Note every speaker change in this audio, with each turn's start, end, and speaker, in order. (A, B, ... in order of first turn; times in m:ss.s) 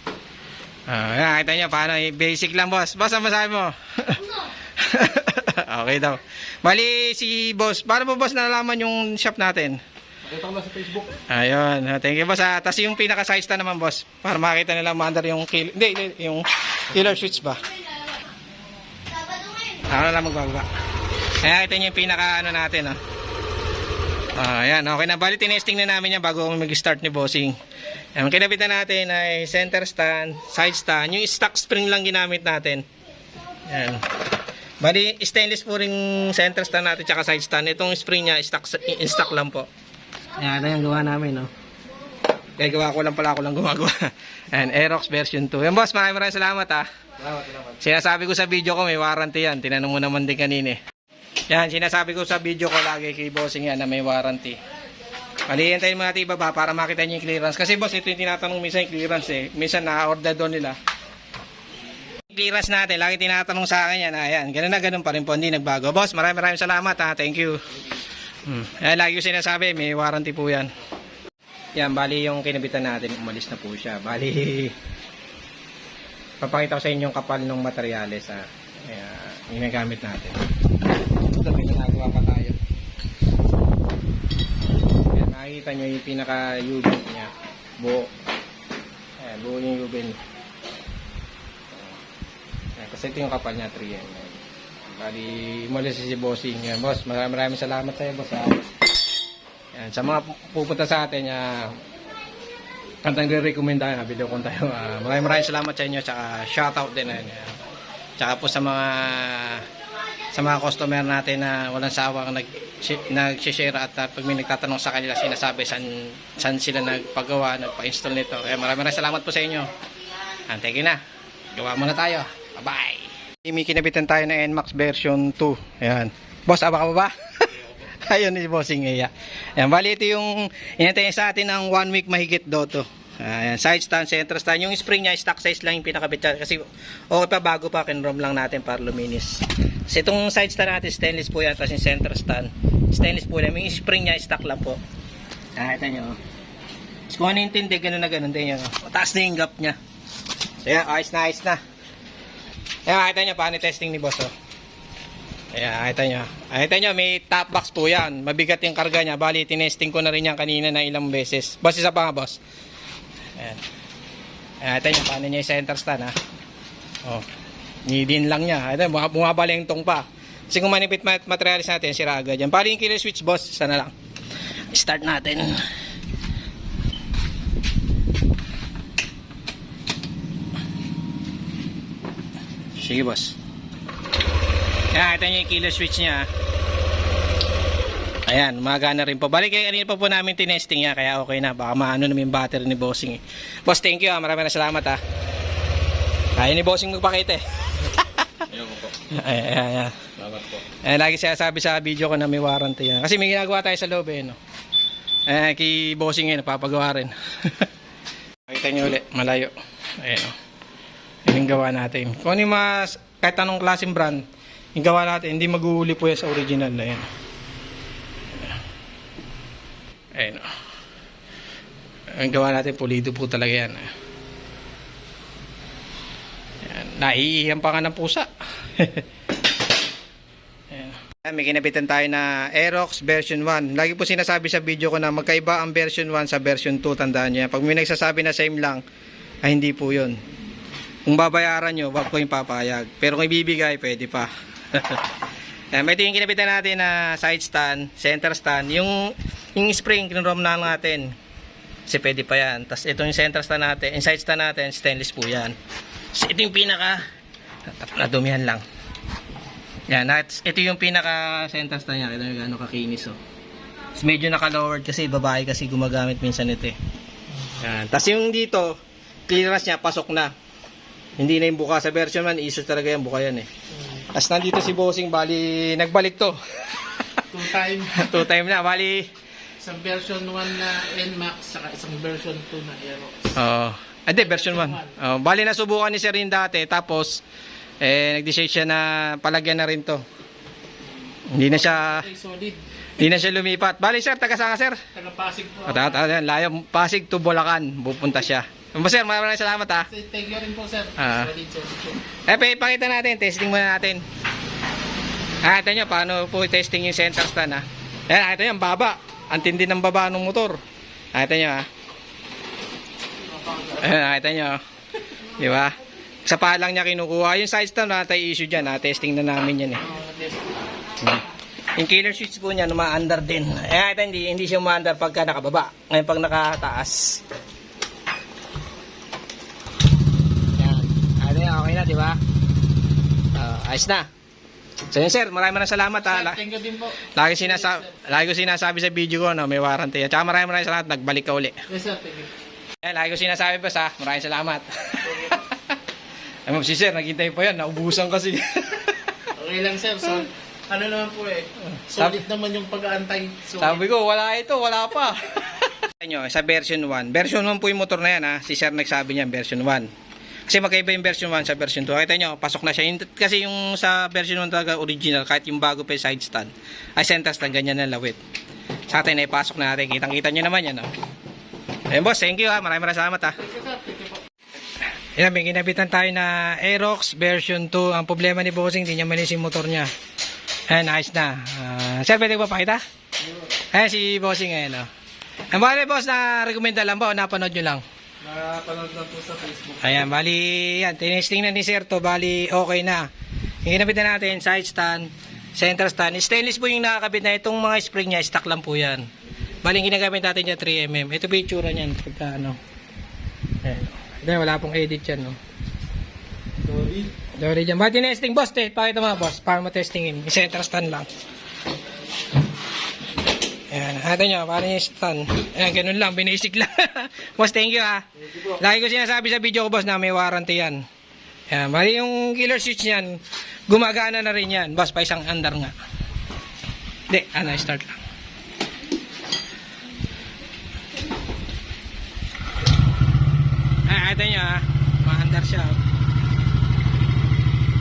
0:00.9-0:09.8 A
0:10.3-0:11.0 B
0:11.3-0:17.6 A
0:19.7-0:20.7 A
0:21.4-0:23.0 A
0:24.3-0:27.6 A
0:28.1-0:32.8 A
0:33.7-0:34.2 A
0:34.8-0:39.7 A
0:40.4-0:41.5 A
0:42.6-0:50.8 A
0:51.5-0:54.6 A
0:55.5-1:00.8 A
1:02.3-1:07.6 A
1:08.4-1:10.7 A
1:11.8-1:14.8 A
1:16.4-1:20.4 A
1:21.2-1:22.6 A
1:25.1-1:28.1 A
1:29.2-1:30.2 A
1:32.8-1:38.7 A
1:39.7-1:41.8 A
1:43.0-1:47.6 A
1:48.2-1:49.7 A
1:50.3-1:59.7 A
2:00.5-2:01.0 A
2:01.5-2:24.8 A
2:25.6-2:26.2 A
2:27.1-2:29.8 A
2:30.6-2:31.6 A
2:32.8-2:34.3 A
2:35.5-2:42.4 A
2:43.4-2:43.6 A
2:44.6-2:46.2 A
2:47.8-2:53.9 A
2:54.7-2:55.6 A
3:02.8-3:03.4 A
3:04.9-3:06.3 A
3:08.3-3:15.0 A
3:16.4-3:24.4 A
3:25.3-3:27.7 A
3:28.5-3:30.3 A
3:31.2-3:37.1 A
3:40.1-3:40.5 A
3:42.1-3:43.9 A
3:46.6-3:49.0 A
3:50.7-3:58.8 A
3:59.4-4:00.2 A
4:01.0-4:05.1 A
4:05.7-4:11.1 A
4:11.9-4:15.6 A
4:16.1-4:17.0 A
4:17.6-4:18.6 A
4:19.9-4:23.2 A
4:23.9-4:26.8 A
4:27.6-4:28.8 A
4:29.3-4:30.3 A
4:31.2-4:33.5 A
4:33.8-4:34.0 C
4:34.1-4:37.2 A
4:37.3-4:38.2 C
4:37.9-4:39.1 A
4:39.6-4:43.3 C
4:43.3-4:47.2 A
4:44.2-4:44.9 C
4:47.8-4:50.0 A
4:51.3-4:52.1 A
4:51.5-4:52.6 C
4:53.0-4:54.8 A
4:54.9-4:56.0 C
4:55.6-4:59.9 A
4:59.9-5:02.0 C
5:01.0-5:01.3 A
5:02.2-5:04.0 A
5:05.4-5:10.6 A
5:11.1-5:11.7 A
5:13.3-5:13.8 C
5:13.7-5:14.6 A
5:15.3-5:19.9 A
5:19.8-5:20.6 C
5:21.0-5:27.2 A
5:30.5-5:32.2 A
5:33.3-5:34.1 A
5:34.9-5:36.4 A
5:36.0-5:37.9 C
5:37.0-5:41.6 A
5:41.7-5:42.3 C
5:42.8-5:45.7 A
5:45.1-5:45.4 C
5:46.4-5:49.3 A
5:49.3-5:53.8 C
5:51.6-5:52.2 A
5:53.6-5:59.9 A
6:00.5-6:08.2 A
6:08.9-6:10.9 A
6:11.9-6:13.4 A
6:13.4-6:14.2 C
6:15.2-6:19.9 A
6:20.7-6:22.8 A
6:23.5-6:24.9 A
6:25.5-6:27.8 A
6:28.2-6:29.3 B
6:28.3-6:29.8 C
6:29.8-6:33.1 A
6:33.6-6:39.1 A
6:39.6-6:42.6 A
6:43.6-6:45.4 A
6:47.3-6:51.1 A
6:53.7-7:00.8 A
7:01.5-7:05.7 A
7:07.1-7:08.0 A
7:13.9-7:15.8 A